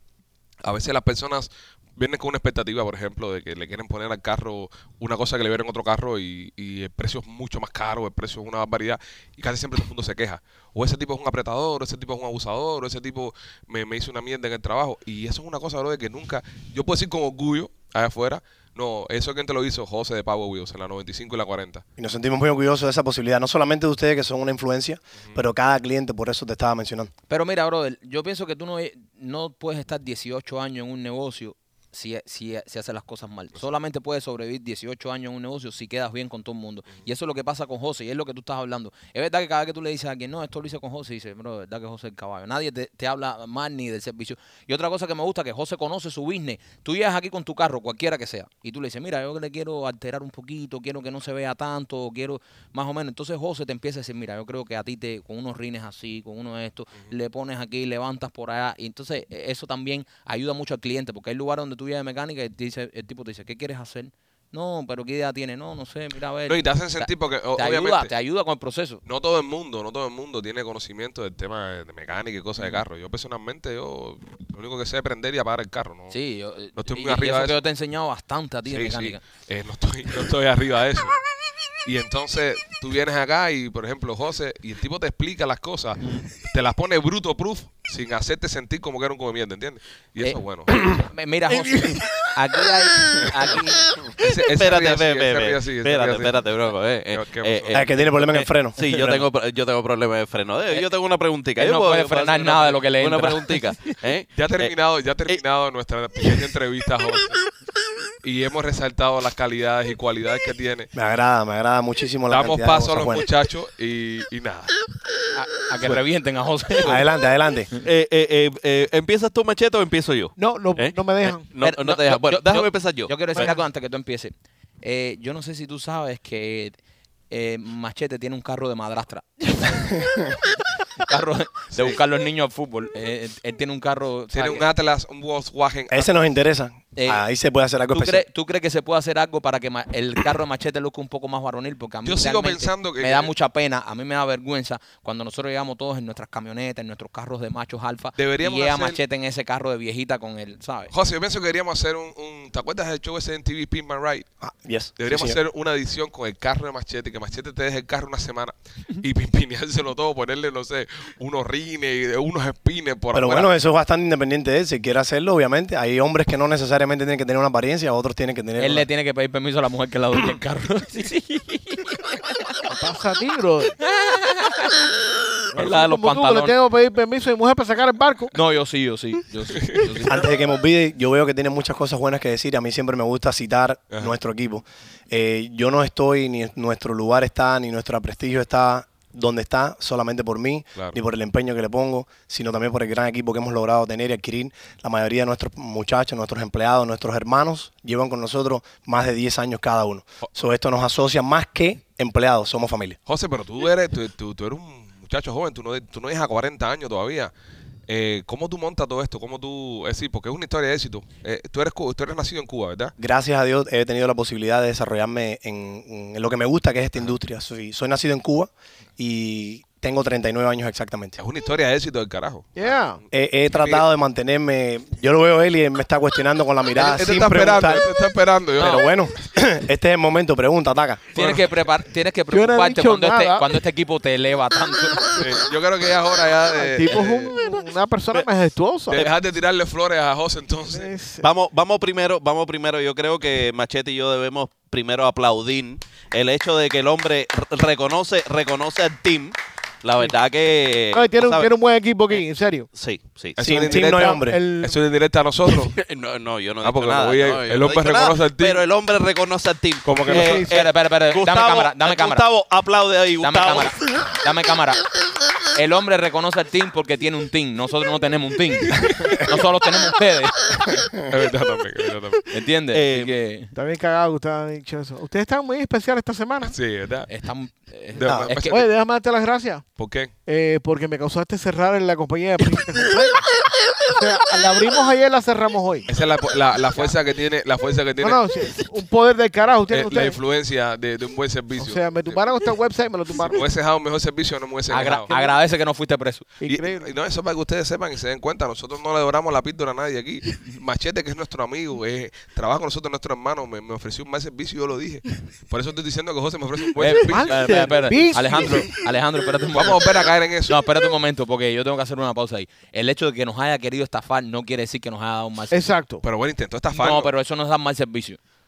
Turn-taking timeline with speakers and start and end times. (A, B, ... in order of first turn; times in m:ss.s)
0:00.6-0:21.8 A
0:22.0-0:27.1 B
0:27.3-1:09.0 C
1:06.5-1:08.1 A
1:09.0-1:16.2 A
1:16.1-1:19.2 C
1:16.8-1:17.6 A
1:18.7-1:21.2 A
1:21.8-1:30.9 A
1:26.0-1:26.2 C
1:30.2-1:33.9 C
1:34.2-1:36.4 A
1:34.5-1:44.7 D
1:37.1-1:37.9 A
1:37.7-1:39.2 B
1:41.6-1:43.6 C
1:44.3-1:47.3 A
1:48.2-1:50.9 A
1:50.9-1:53.3 B
1:52.3-1:54.7 A
1:55.3-1:57.0 C
1:56.8-1:57.7 B
1:57.8-2:03.5 D
2:00.4-2:01.4 E
2:01.6-2:06.7 C
2:07.3-2:14.6 C
2:14.3-2:16.1 A
2:15.9-2:18.2 B
2:17.0-2:17.2 C
2:17.9-2:30.9 C
2:22.0-2:23.3 A
2:28.2-2:29.0 A
2:30.9-2:34.3 A
2:34.4-2:35.4 B
2:35.0-2:43.5 A
2:43.1-2:48.9 B
2:48.6-2:52.7 C
2:52.7-2:53.7 E
2:54.0-2:54.7 C
2:55.5-2:56.5 C
2:55.5-2:58.3 E
2:58.3-3:00.3 C
3:00.0-3:23.0 B
3:23.1-3:27.3 A
3:27.9-3:32.9 A
3:33.0-3:41.2 B
3:41.2-3:42.7 A
3:42.6-3:43.0 E
3:43.1-3:47.9 B
3:43.5-3:43.8 A
3:46.7-3:48.8 A
3:48.6-3:51.0 B
3:48.6-3:48.9 C
3:51.1-3:55.3 C
3:51.2-3:51.5 A
3:52.3-3:53.6 E
3:55.2-3:57.3 A
3:56.6-3:59.0 E
3:58.9-4:00.9 A
4:00.7-4:01.3 E
4:01.2-4:11.5 D
4:10.9-4:12.7 E
4:12.7-4:13.4 D
4:13.4-4:15.8 A
4:13.4-4:14.4 B
4:13.7-4:14.8 E
4:15.5-4:24.0 D
4:16.6-4:18.6 A
4:19.8-4:20.5 A
4:20.0-4:20.6 E
4:20.4-4:22.2 C
4:23.2-4:24.8 C
4:25.5-4:30.7 C
4:28.7-4:29.3 A
4:31.0-4:32.2 A
4:32.3-4:33.5 C
4:32.7-4:33.1 D
4:33.5-4:36.5 E
4:36.4-4:37.1 A
4:37.1-4:38.6 C
4:38.0-4:38.6 A
4:38.0-4:38.3 B
4:38.5-4:39.6 E
4:39.8-4:40.1 A
4:40.2-4:43.2 E
4:43.8-4:45.9 E
4:45.9-4:48.2 A
4:48.0-4:50.2 E
4:49.7-4:52.2 A
4:51.6-4:53.4 E
4:53.2-4:55.1 A
4:54.7-4:56.3 C
4:55.1-4:55.4 E
4:56.4-4:56.9 E
4:56.4-5:07.7 A
5:06.8-5:15.7 C
5:07.1-5:08.8 E
5:09.5-5:10.6 A
5:15.5-5:16.0 E
5:16.0-5:17.1 A
5:16.7-5:18.2 C